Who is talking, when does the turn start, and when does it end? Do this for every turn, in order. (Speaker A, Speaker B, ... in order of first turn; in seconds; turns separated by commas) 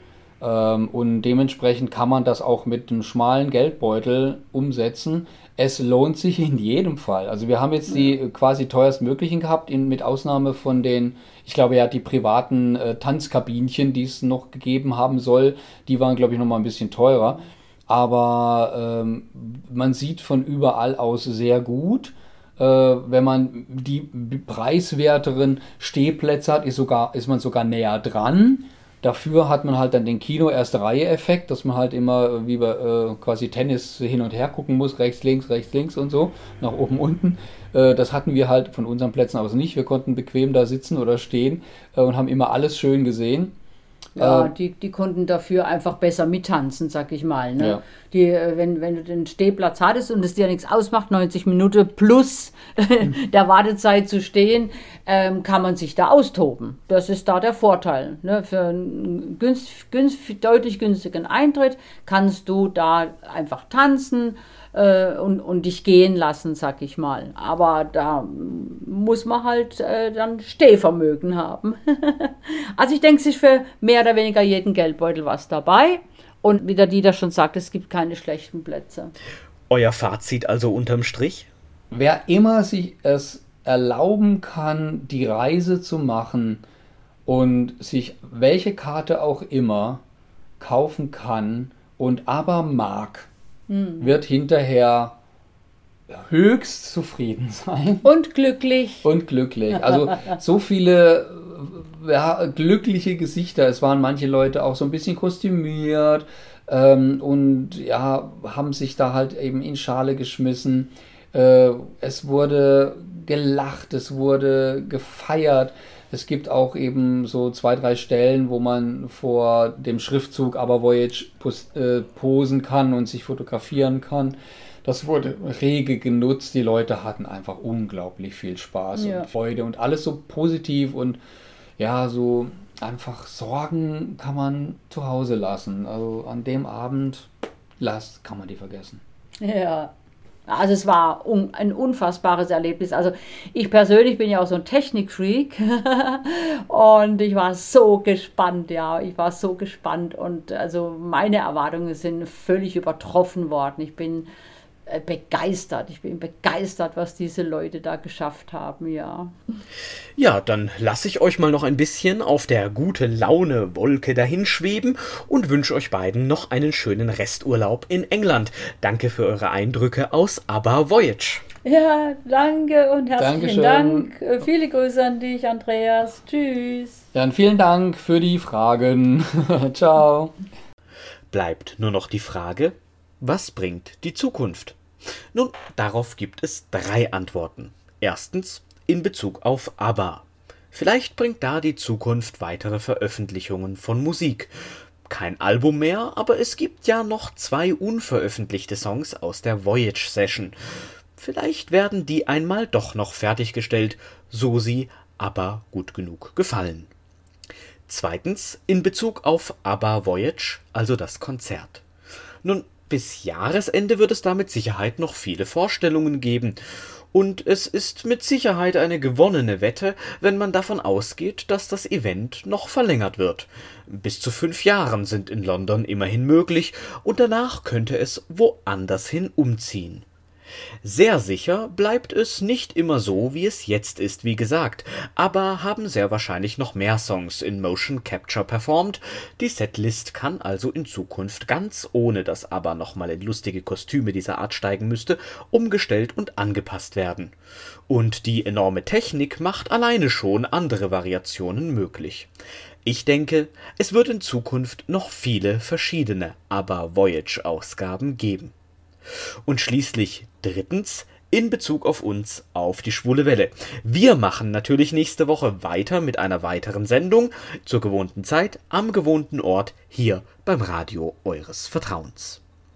Speaker A: 0.4-43.5, Speaker B: 44.1-79.1, Speaker A: 44.2-44.5, Speaker C: 79.7-81.5, Speaker A: 81.9-86.6, Speaker A: 87.2-90.0, Speaker A: 90.6-93.3, Speaker B: 93.7-94.1, Speaker A: 94.0-95.2, Speaker A: 96.1-98.1, Speaker B: 98.0-99.0, Speaker A: 99.0-131.2, Speaker B: 128.9-129.3, Speaker A: 131.8-139.0, Speaker B: 139.4-139.9, Speaker B: 140.5-154.3, Speaker B: 154.8-159.3, Speaker C: 160.2-171.4, Speaker B: 171.6-177.0, Speaker A: 173.2-174.1, Speaker A: 177.1-180.3, Speaker C: 181.3-184.8, Speaker C: 185.3-194.5, Speaker C: 195.1-200.6, Speaker C: 201.2-206.9, Speaker C: 207.9-211.8, Speaker C: 212.4-216.6, Speaker C: 217.1-230.0, Speaker C: 230.8-247.3, Speaker C: 247.9-252.3, Speaker C: 252.8-258.5, Speaker C: 259.4-272.4